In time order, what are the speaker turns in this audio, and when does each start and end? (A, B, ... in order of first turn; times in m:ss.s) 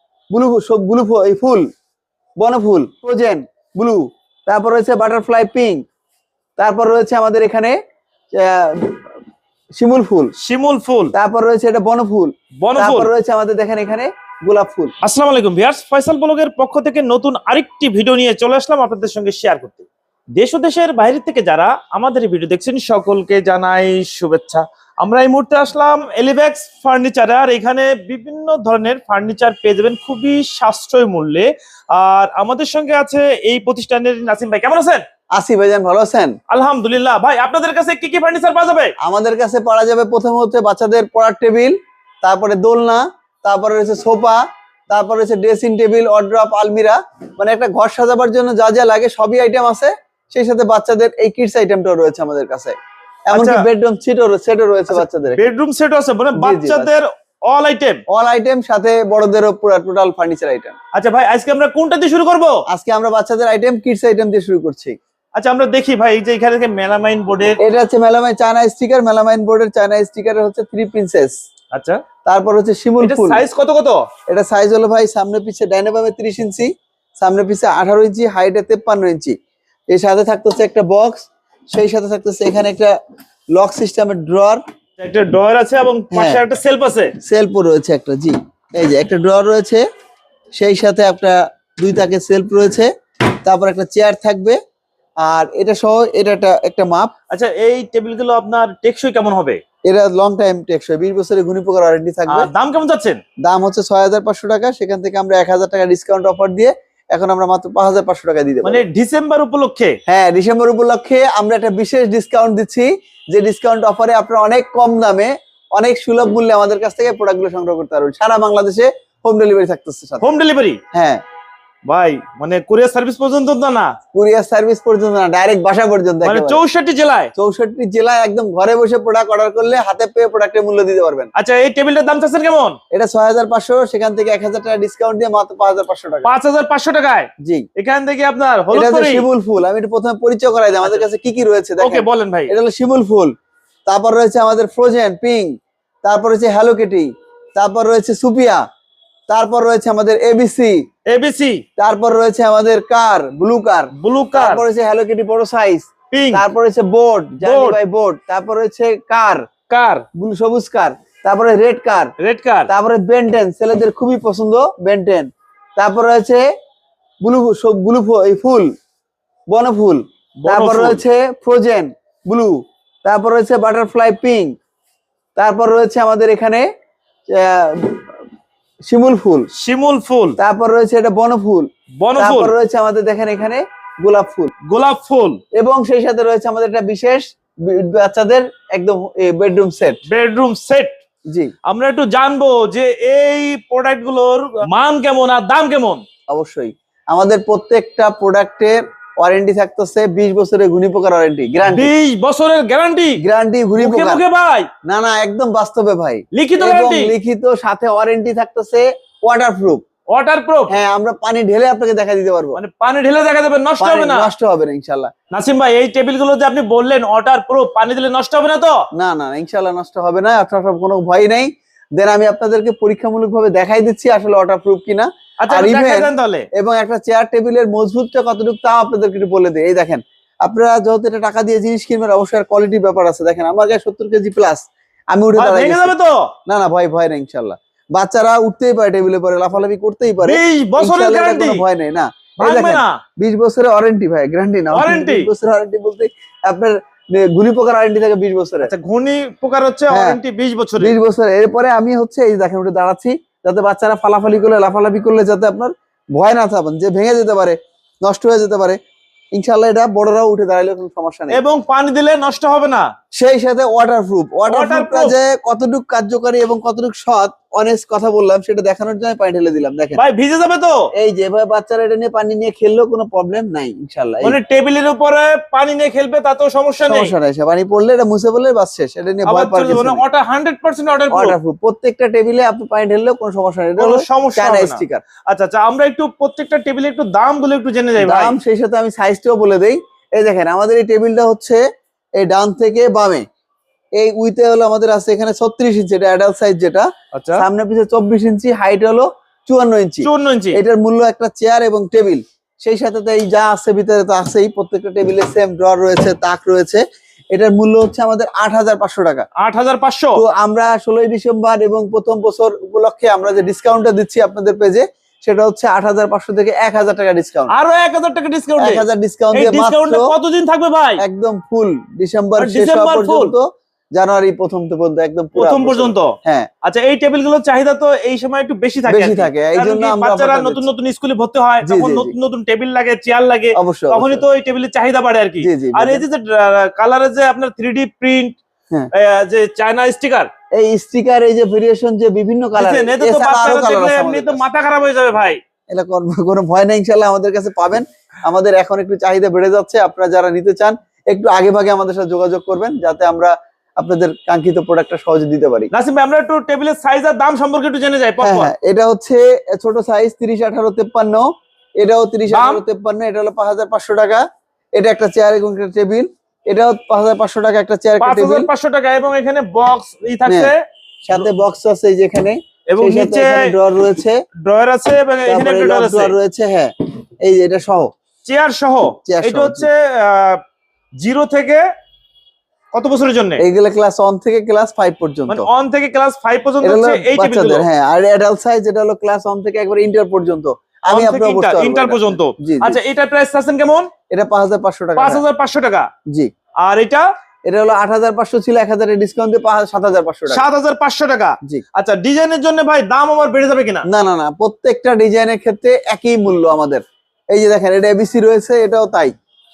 0:00.3-0:01.7 A
0:02.4-0:05.8 A
0:06.6-0:07.8 A
0:08.3-0:09.0 A
0:09.8-0:10.3 A
0:10.4-0:11.1 B
0:11.1-0:14.9 A
0:12.6-0:13.1 B
0:15.0-0:35.0 B
0:35.4-0:36.4 A
0:36.5-0:38.9 B
0:39.0-0:52.8 A
0:53.3-0:55.5 A
0:53.3-0:53.6 B
0:54.9-0:58.0 B
0:56.4-0:56.9 A
0:58.1-1:00.8 A
1:00.9-1:02.6 B
1:02.7-1:05.0 A
1:05.4-1:07.6 B
1:07.6-1:11.4 A
1:11.7-1:12.0 B
1:12.2-1:13.4 A
1:13.0-1:14.1 B
1:14.3-1:19.4 A
1:19.9-1:22.9 A
1:23.6-1:24.6 A
1:25.0-1:27.1 B
1:26.1-1:26.4 A
1:27.2-1:29.8 A
1:30.6-1:32.9 A
1:33.4-1:34.6 A
1:35.2-1:37.1 A
1:37.3-1:39.6 B
1:39.9-1:42.5 A
1:42.3-1:43.2 B
1:43.4-1:48.8 A
1:48.6-1:50.0 B
1:50.1-2:00.2 A
2:00.2-2:00.8 B
2:00.9-2:01.2 A
2:01.9-2:03.9 B
2:04.1-2:06.6 A
2:06.2-2:07.3 B
2:07.4-2:11.3 A
2:11.4-2:12.8 B
2:12.9-2:16.3 A
2:16.2-2:19.2 B
2:17.4-2:17.7 A
2:18.7-2:23.3 A
2:21.8-2:22.5 B
2:23.9-2:25.5 A
2:26.0-2:28.6 A
2:29.3-2:30.8 A
2:31.1-2:31.6 B
2:31.8-2:39.4 A
2:34.0-2:34.6 B
2:36.1-2:36.4 B
2:37.4-2:37.8 B
2:39.7-2:40.0 B
2:40.2-2:42.1 A
2:42.2-2:42.7 B
2:42.7-2:46.4 A
2:47.2-2:48.7 A
2:49.5-2:54.6 A
2:50.4-2:51.0 B
2:55.4-2:56.6 A
2:57.3-2:58.1 A
2:58.9-2:59.5 A
2:59.5-3:00.4 B
3:00.4-3:04.5 A
3:02.0-3:02.5 B
3:04.7-3:05.4 B
3:05.6-3:10.0 A
3:10.1-3:11.0 B
3:11.7-3:16.0 B
3:16.3-3:21.9 A
3:21.7-3:23.2 B
3:23.2-3:24.2 A
3:23.8-3:24.7 B
3:24.8-3:29.8 A
3:26.3-3:27.1 B
3:30.1-3:30.7 B
3:30.7-3:32.6 A
3:32.6-3:34.3 B
3:33.8-3:35.1 A
3:35.3-3:38.8 B
3:39.0-3:55.9 A
3:45.4-3:46.5 B
3:55.4-3:56.3 B
3:56.5-4:08.7 A
4:00.2-4:01.6 B
4:02.4-4:03.0 B
4:04.7-4:05.3 B
4:08.6-4:11.0 B
4:09.9-4:10.2 A
4:10.8-4:18.8 A
4:19.3-4:21.4 A
4:21.3-4:22.9 B
4:23.1-4:30.0 A
4:24.5-4:25.2 B
4:30.0-4:30.9 B
4:31.0-4:34.4 A
4:34.2-4:37.1 B
4:36.8-4:40.0 A
4:39.2-4:41.4 B
4:41.1-4:45.0 A
4:43.8-4:48.4 B
4:48.0-4:51.6 A
4:52.2-4:53.2 A
4:54.0-5:06.8 A
4:57.1-4:57.4 B
5:00.0-5:00.6 B
5:07.3-5:09.3 A
5:09.4-5:10.2 B
5:10.2-5:17.5 A
5:17.5-5:21.0 B
5:18.6-5:20.1 A
5:21.0-5:26.5 A
5:22.4-5:23.3 B
5:25.4-5:38.4 B
5:28.9-5:30.6 A
5:31.6-5:32.1 A
5:33.6-5:34.2 A
5:35.4-5:36.0 A
5:38.9-5:40.3 B
5:40.6-5:44.4 A
5:42.6-5:45.4 B
5:45.7-5:55.7 A
5:55.7-5:58.5 B
5:58.2-6:01.3 A
6:01.8-6:04.2 A
6:02.3-6:02.6 B
6:04.8-6:08.5 A
6:08.0-6:10.6 B
6:10.3-6:10.5 A
6:11.1-6:14.2 A
6:12.7-6:13.5 B
6:14.4-6:16.2 B
6:15.3-6:17.9 A
6:18.2-6:20.4 B
6:19.0-6:19.7 A
6:21.0-6:21.7 B
6:22.7-6:23.4 B
6:23.4-6:25.5 A
6:25.3-6:27.7 B
6:26.6-6:32.8 A
6:30.9-6:33.9 B
6:34.1-6:35.2 A
6:35.0-6:35.9 B
6:36.6-6:37.1 B
6:37.5-6:40.4 A
6:40.3-6:43.9 B
6:43.9-6:49.1 A